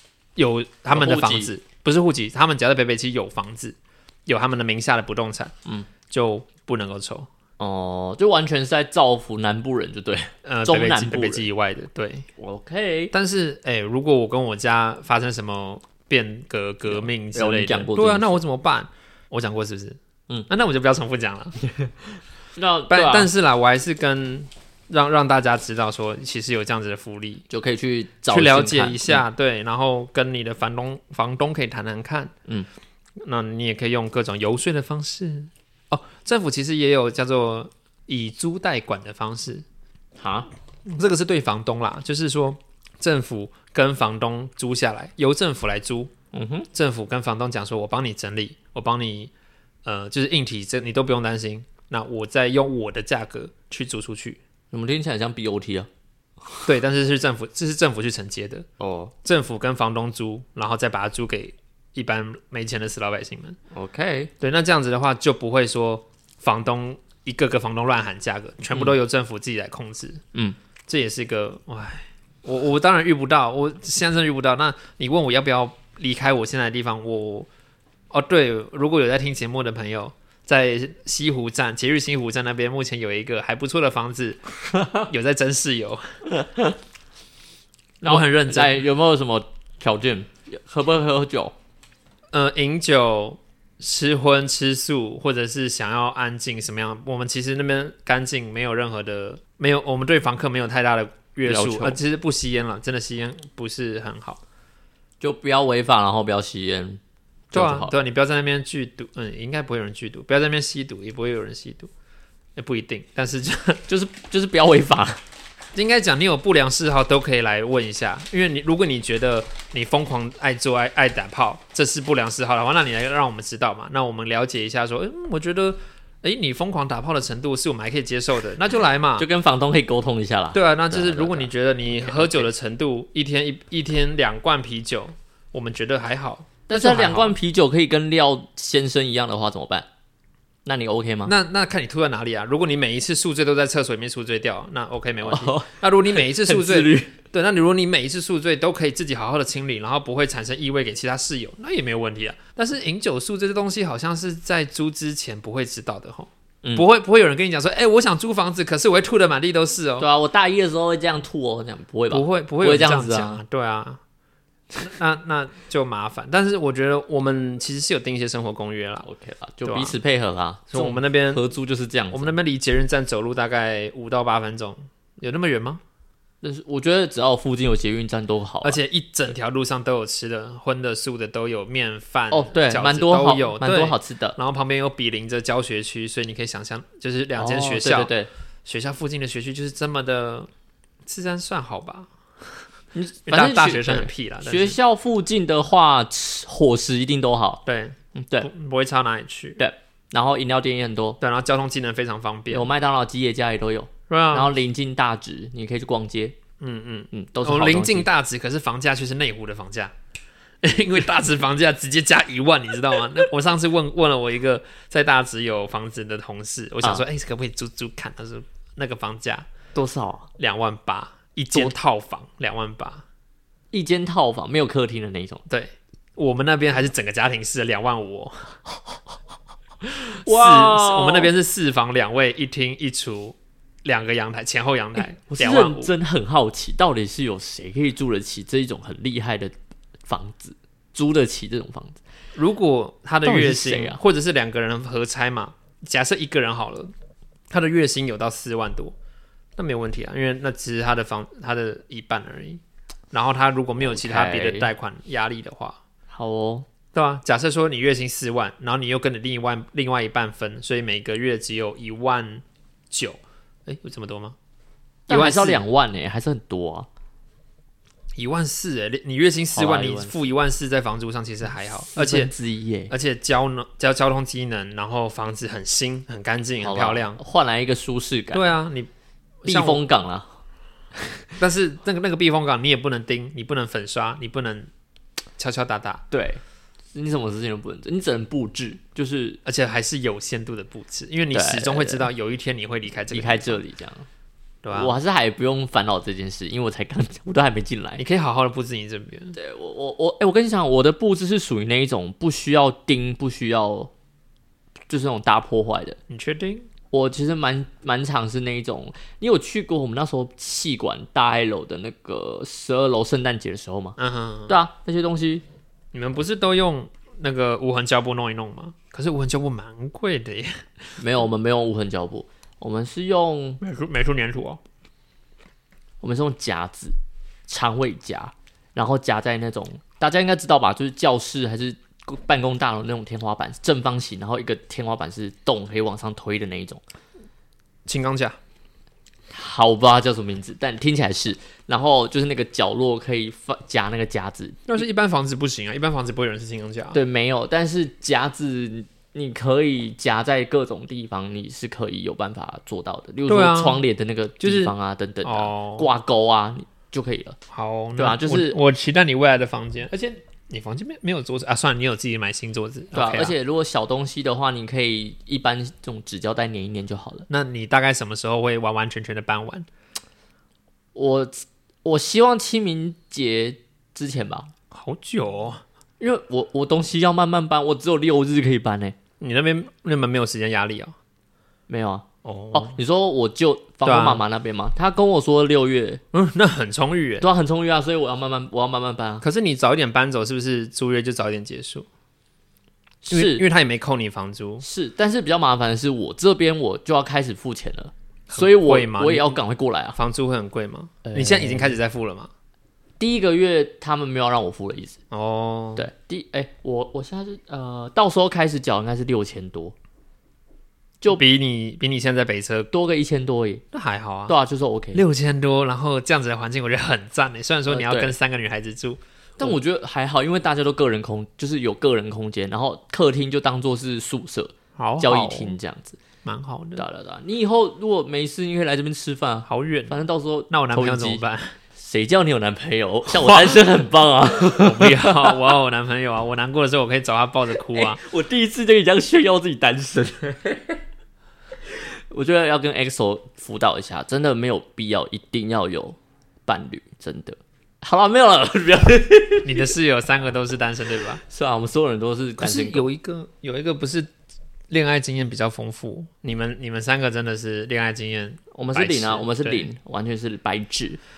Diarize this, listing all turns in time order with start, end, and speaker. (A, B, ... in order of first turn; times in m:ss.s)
0:00.4-0:05.5 A
0:00.9-0:01.5 B
0:06.1-0:07.3 A
0:07.6-0:11.5 B
0:10.4-0:12.3 A
0:12.4-0:13.1 B
0:13.1-0:21.6 A
0:16.9-0:18.4 B
0:21.6-0:21.9 B
0:22.6-0:23.3 B
0:22.9-0:27.4 A
0:27.5-0:29.2 B
0:28.3-0:32.3 A
0:33.2-0:39.6 A
0:40.2-0:40.5 B
0:40.9-0:46.1 A
0:46.3-0:46.7 B
0:46.7-0:49.3 A
0:49.8-0:54.4 A
0:54.7-0:55.9 B
0:56.7-0:58.7 A
0:58.8-0:59.1 B
0:59.2-1:03.6 A
1:03.7-1:04.3 B
1:04.4-1:10.2 A
1:10.9-1:17.5 A
1:18.1-1:24.4 A
1:24.8-1:25.0 B
1:25.1-1:26.0 A
1:26.3-1:26.8 B
1:28.0-1:31.5 B
1:28.0-1:28.8 A
1:32.3-1:44.4 A
1:41.4-1:42.0 B
1:45.2-1:47.0 B
1:47.5-1:47.9 B
1:47.5-1:51.9 A
1:52.6-1:53.8 A
1:53.9-1:55.2 B
1:55.7-2:09.3 A
2:09.2-2:12.5 B
2:10.5-2:17.4 A
2:16.7-2:19.9 B
2:20.6-2:21.3 B
2:21.2-2:40.1 A
2:25.2-2:27.1 B
2:40.0-2:43.4 B
2:42.1-2:44.0 A
2:44.8-2:49.1 A
2:49.0-2:52.4 B
2:49.6-2:50.0 A
2:50.7-2:51.4 A
2:52.1-2:55.8 A
2:56.4-2:58.8 B
2:58.6-3:08.1 A
3:02.3-3:04.4 B
3:07.4-3:08.3 B
3:08.7-3:10.5 A
3:11.1-3:12.5 A
3:13.0-3:17.6 B
3:13.3-3:14.8 A
3:17.7-3:19.6 A
3:18.2-3:18.5 B
3:19.6-3:21.2 B
3:21.2-3:22.7 A
3:22.5-3:26.4 B
3:24.1-3:24.5 A
3:26.6-3:29.9 A
3:27.1-3:28.1 B
3:30.6-3:39.5 A
3:39.8-3:40.3 B
3:40.4-3:43.0 A
3:43.7-3:45.4 B
3:45.5-3:48.6 A
3:49.9-3:55.9 A
3:50.2-3:51.3 B
3:55.0-3:59.5 B
4:00.1-4:02.0 B
4:02.4-4:06.9 A
4:03.2-4:04.0 B
4:07.5-4:09.0 A
4:09.6-4:12.6 A
4:13.1-4:15.8 A
4:13.8-4:14.7 B
4:16.1-4:16.7 B
4:16.9-4:24.4 A
4:25.1-4:26.9 B
4:25.1-4:25.6 A
4:28.2-4:32.3 A
4:29.5-4:30.2 B
4:31.9-4:32.9 B
4:32.9-4:37.2 A
4:36.6-4:38.5 B
4:38.3-4:38.9 A
4:39.4-4:39.8 A
4:39.5-4:40.4 B
4:41.0-4:41.3 B
4:41.4-4:44.7 A
4:45.4-4:46.0 A
4:46.1-4:46.4 B
4:46.9-4:49.4 B
4:49.4-4:53.6 A
4:51.3-4:52.1 B
4:53.1-4:54.1 B
4:54.6-4:55.0 A
4:54.7-4:58.0 B
4:58.0-4:59.4 A
4:59.3-5:03.9 B
5:04.9-5:06.0 B
5:06.1-5:06.7 A
5:06.9-5:14.0 B
5:14.0-5:14.6 A
5:14.5-5:15.4 B
5:15.9-5:20.6 A
5:21.0-5:23.6 B
5:23.6-5:24.6 A
5:26.0-5:27.0 B
5:27.5-5:36.8 B
5:37.9-5:38.4 A
5:39.3-5:44.8 B
5:44.7-5:47.0 A
5:46.9-5:57.4 B
5:53.3-5:53.8 A
5:54.4-5:54.7 A
5:55.2-5:55.9 A
5:57.5-6:03.4 A
5:58.0-5:58.6 B
6:02.9-6:07.3 B
6:07.3-6:09.7 A
6:11.0-6:14.5 B
6:14.7-6:15.6 A
6:16.0-6:19.0 B
6:19.2-6:21.0 A
6:21.7-6:26.0 B
6:22.2-6:22.8 A
6:23.8-6:24.2 A
6:26.1-6:27.3 A
6:27.2-6:29.2 B
6:29.2-6:31.9 A
6:33.0-6:33.4 B
6:33.1-6:34.6 A
6:34.6-6:40.0 B
6:38.3-6:39.4 A
6:40.0-6:42.3 A
6:41.0-6:41.8 B
6:43.0-6:45.0 B
6:45.1-6:45.9 A
6:45.8-6:49.8 B
6:51.1-6:52.7 A
6:52.7-6:53.6 B
6:53.7-6:54.3 A
6:54.3-6:55.0 B
6:54.9-6:59.6 A
6:57.7-6:58.2 B
6:59.4-7:06.0 B
7:04.8-7:05.6 A
7:06.2-7:06.8 A
7:06.8-7:11.2 B
7:09.5-7:10.0 A
7:10.5-7:11.6 A
7:11.8-7:15.4 B
7:13.1-7:13.6 A
7:14.5-7:18.0 A
7:17.7-7:20.8 B
7:21.7-7:29.7 B
7:29.4-7:31.2 A
7:31.2-7:32.9 B
7:32.4-7:34.1 A
7:34.7-7:39.7 A
7:38.5-7:41.0 B